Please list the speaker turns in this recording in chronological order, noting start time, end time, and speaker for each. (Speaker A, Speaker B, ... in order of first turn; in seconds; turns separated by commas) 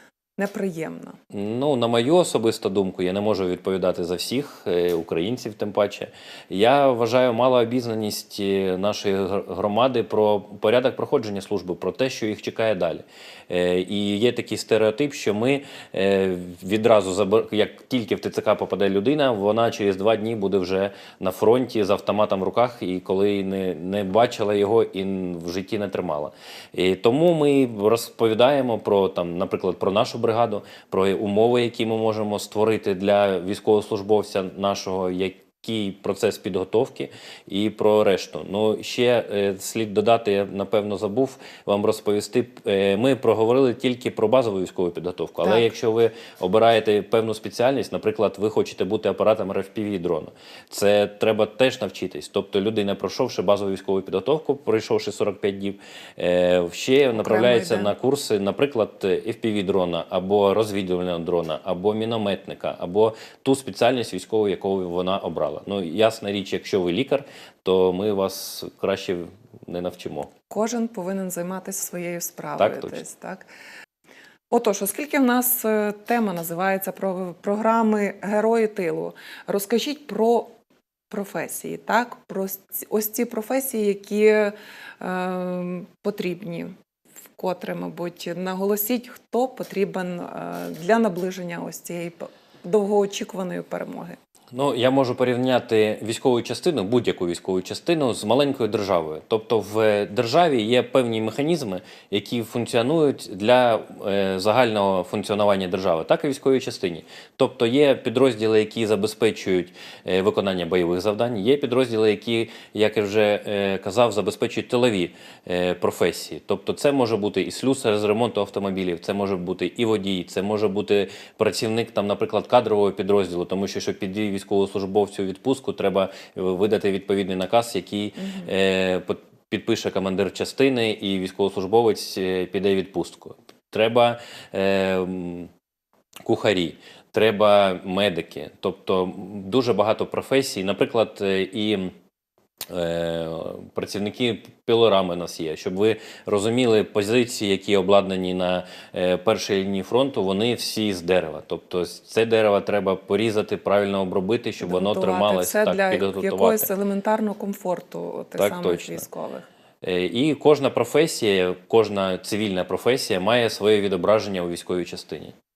Speaker A: 0.4-1.2, Speaker B: 1.3-70.3, Speaker A: 57.2-57.9, Speaker A: 70.5-73.5, Speaker B: 72.6-73.0, Speaker A: 74.5-80.5, Speaker A: 81.1-86.8, Speaker A: 87.4-94.2, Speaker B: 94.5-135.5, Speaker A: 128.2-128.5, Speaker B: 136.2-141.9, Speaker B: 142.7-156.7, Speaker A: 154.6-159.5, Speaker B: 158.4-159.1, Speaker B: 159.8-165.3